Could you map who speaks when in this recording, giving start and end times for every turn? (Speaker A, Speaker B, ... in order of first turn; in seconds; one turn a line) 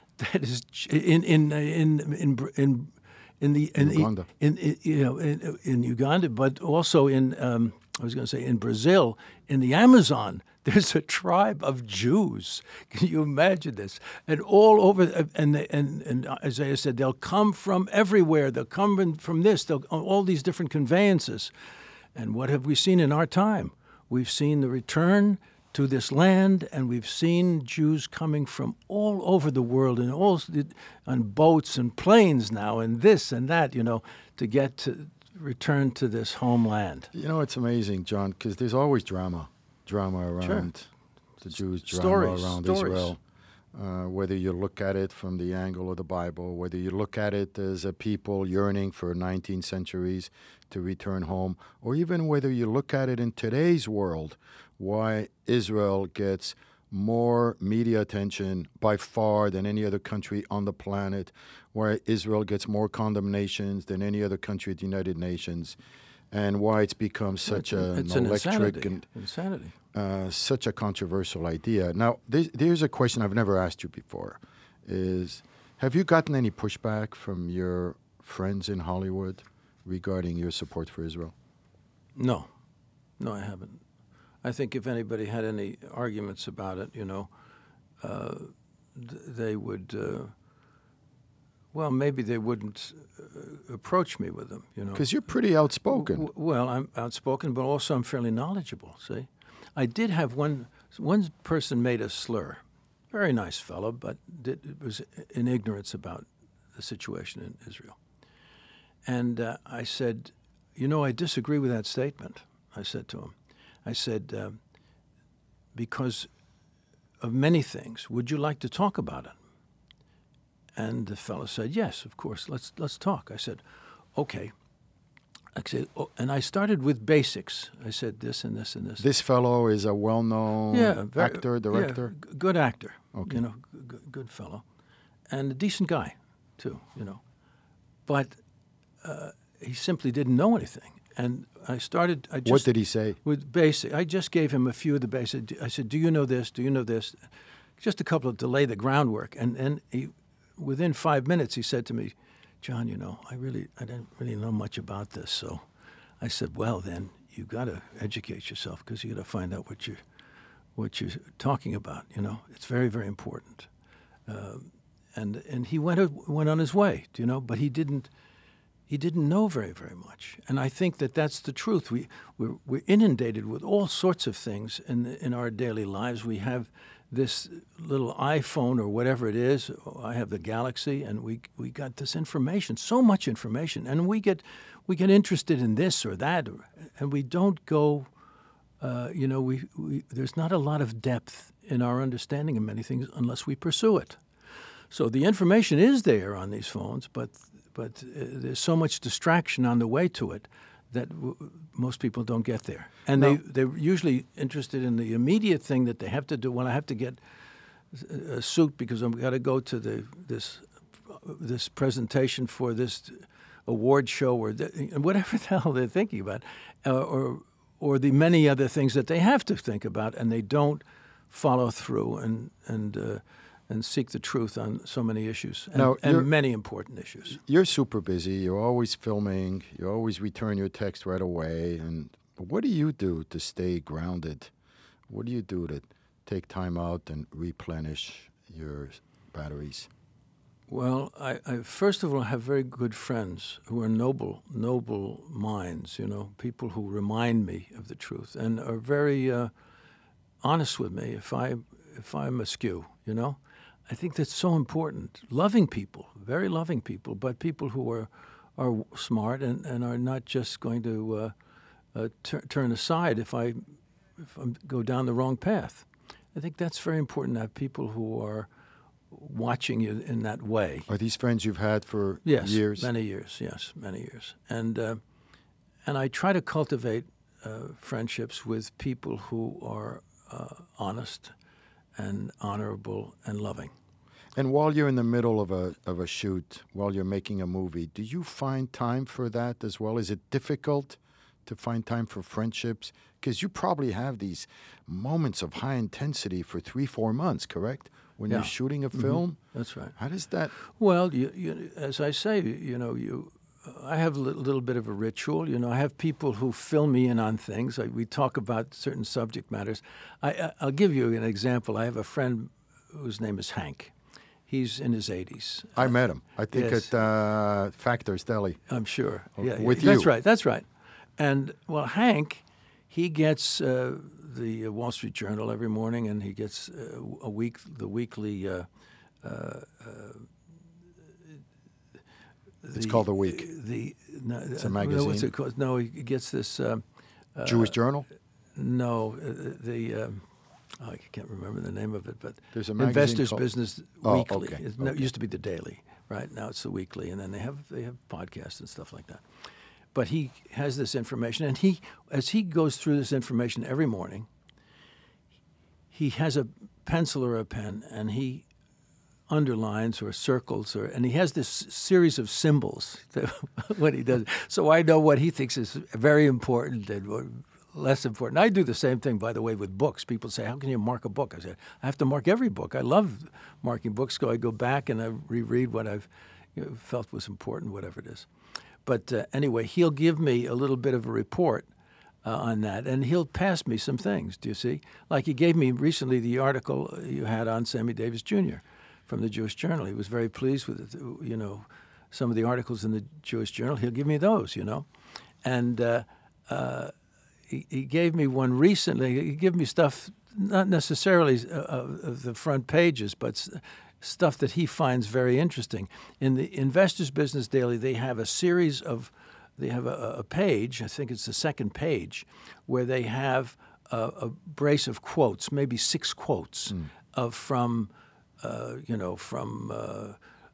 Speaker A: 0.2-21.5
Speaker B: 3.8-4.3
Speaker A: 22.1-37.1
Speaker B: 37.1-40.9
Speaker A: 40.4-40.7
Speaker B: 41.4-43.2
Speaker A: 41.8-43.1
Speaker B: 43.7-65.8
Speaker B: 66.3-69.0
Speaker A: 67.5-69.7
Speaker B: 69.9-81.3
Speaker A: 82.2-82.5
Speaker A: 83.2-83.8
Speaker A: 84.4-87.3
Speaker A: 88.0-90.3
Speaker A: 91.7-95.1
Speaker B: 95.0-96.3
Speaker A: 95.9-108.0
Speaker A: 109.1-113.3
Speaker A: 113.8-114.6
Speaker A: 115.8-116.3
Speaker A: 117.2-119.3
Speaker A: 120.8-123.6
Speaker A: 124.2-124.5
Speaker A: 125.5-129.1
Speaker B: 129.0-132.1
Speaker A: 130.7-134.6
Speaker B: 133.1-133.4
Speaker A: 135.3-137.2
Speaker A: 138.1-138.4
Speaker A: 139.0-142.7
Speaker B: 142.4-143.2
Speaker A: 143.2-147.2
Speaker A: 147.8-155.7
Speaker A: 156.2-160.0
Speaker A: 160.8-163.7
Speaker A: 164.3-168.1
Speaker A: 168.9-188.1
Speaker A: 188.8-194.2
Speaker A: 194.9-207.2
Speaker A: 207.9-227.4
Speaker B: 225.7-226.3
Speaker B: 227.3-234.5
Speaker B: 235.1-239.9
Speaker A: 240.7-249.5
Speaker A: 250.4-261.3
Speaker A: 261.9-268.5
Speaker A: 269.1-270.9
Speaker B: 270.9-272.9
Speaker A: 272.2-275.0
Speaker A: 275.9-281.3
Speaker A: 282.0-283.7
Speaker B: 284.4-299.4
Speaker A: 298.3-299.9
Speaker B: 300.0-300.5
Speaker A: 300.6-313.9
Speaker A: 314.5-315.9
Speaker B: 315.8-318.6
Speaker A: 316.5-316.9
Speaker A: 318.7-320.7
Speaker B: 319.4-320.1
Speaker A: 321.2-328.7
Speaker A: 329.2-330.3
Speaker A: 332.6-336.8
Speaker B: 332.7-333.5
Speaker B: 334.6-335.3
Speaker A: 337.4-337.8
Speaker B: 337.4-338.1
Speaker A: 338.6-340.2
Speaker A: 340.8-349.2
Speaker B: 342.5-343.4
Speaker B: 344.0-345.1
Speaker A: 349.9-354.3
Speaker A: 355.9-358.5
Speaker A: 359.3-378.3
Speaker A: 378.9-381.7
Speaker A: 382.2-394.9
Speaker A: 395.4-396.9
Speaker A: 397.5-420.2